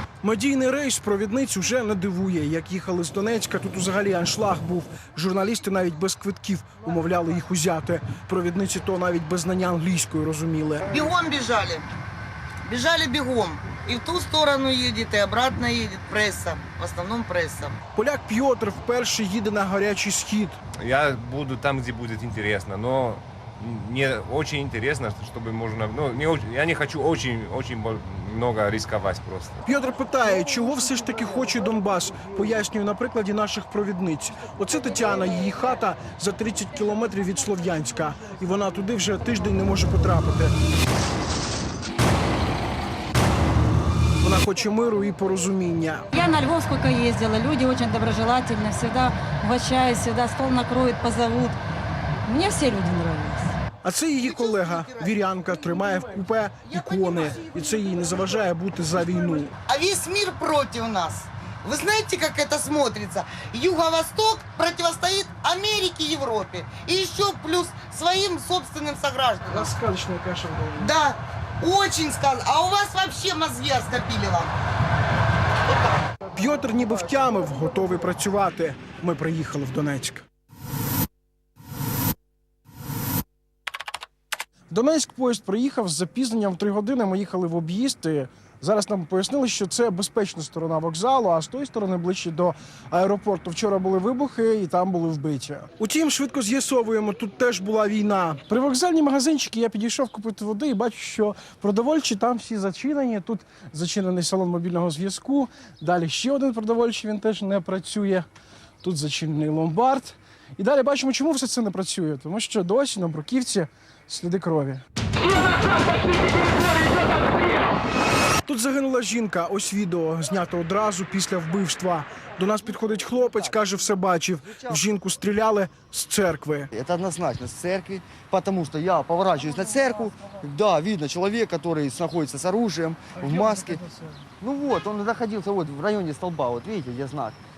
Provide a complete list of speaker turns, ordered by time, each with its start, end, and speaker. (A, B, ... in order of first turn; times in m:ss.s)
0:00.2-0:10.9 A
0:10.9-0:11.9 B
0:12.6-0:17.7 B
0:18.0-0:20.6 A
0:20.8-0:29.6 C
0:29.7-0:40.5 A
0:44.2-0:46.1 A
0:46.1-0:51.6 D
0:52.2-0:53.6 D
0:53.8-0:59.6 A
0:54.3-0:55.7 B
0:56.7-0:58.0 B
0:59.7-1:09.7 B
1:09.5-1:11.0 A
1:10.8-1:14.5 B
1:16.3-1:20.3 A
1:24.7-1:48.3 A
1:48.8-1:54.8 A
1:58.4-2:06.7 A
2:06.7-2:13.8 E
2:13.2-2:13.8 A
2:14.4-2:17.4 E